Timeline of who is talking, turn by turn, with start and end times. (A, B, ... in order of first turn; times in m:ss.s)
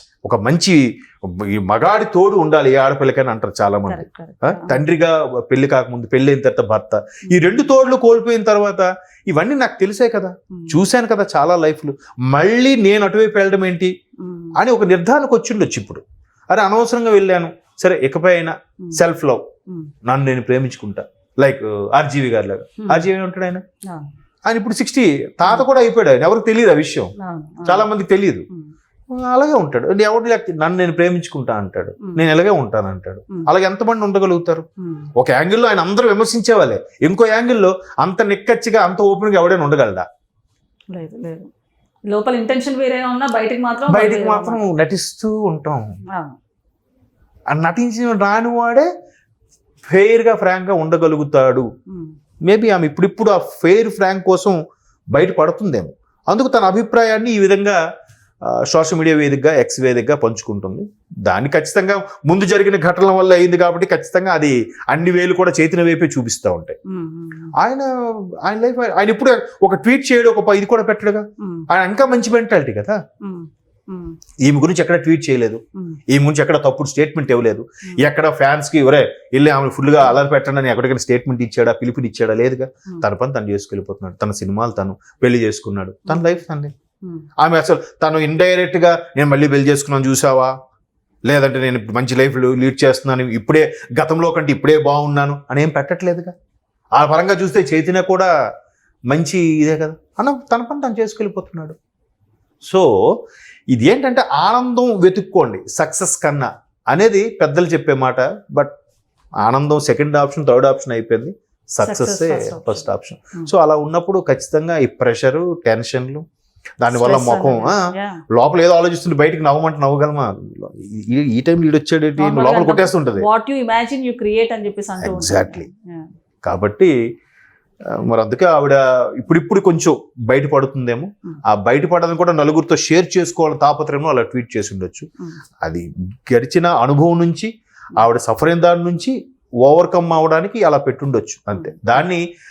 0:00.2-0:13.9 A
0:03.9-0:04.8 B
0:07.3-0:07.6 B
0:10.5-0:10.8 B
0:14.2-0:14.6 B
0:14.6-0:19.4 A
0:20.1-0:23.6 A
0:22.8-0:23.1 B
0:24.5-0:27.1 A
0:27.2-0:27.9 B
0:27.6-0:28.5 A
0:29.1-0:40.1 A
0:34.8-0:35.1 B
0:40.9-0:41.5 B
0:42.1-0:44.6 B
0:43.9-0:46.0 A
0:46.1-0:46.4 B
0:47.5-0:48.9 A
0:49.9-0:51.7 A
0:51.9-0:52.1 B
0:52.4-0:54.6 A
0:55.1-0:57.8 A
0:58.4-1:06.8 A
1:06.9-1:07.5 B
1:07.6-1:07.9 A
1:08.4-1:13.0 A
1:11.4-1:11.7 B
1:13.2-1:14.2 B
1:14.4-1:26.7 A
1:26.1-1:26.4 B
1:27.4-1:30.5 A
1:31.2-1:36.3 A
1:36.9-1:38.3 A
1:39.1-1:41.8 A
1:43.7-1:48.7 A
1:49.4-1:56.2 A
1:51.8-1:53.5 B
1:56.8-2:03.3 A
1:56.9-1:58.2 B
2:02.2-2:06.1 B
2:05.0-2:05.7 A
2:06.4-2:06.9 A
2:07.9-2:15.1 A
2:15.6-2:22.2 A
2:21.5-2:22.1 B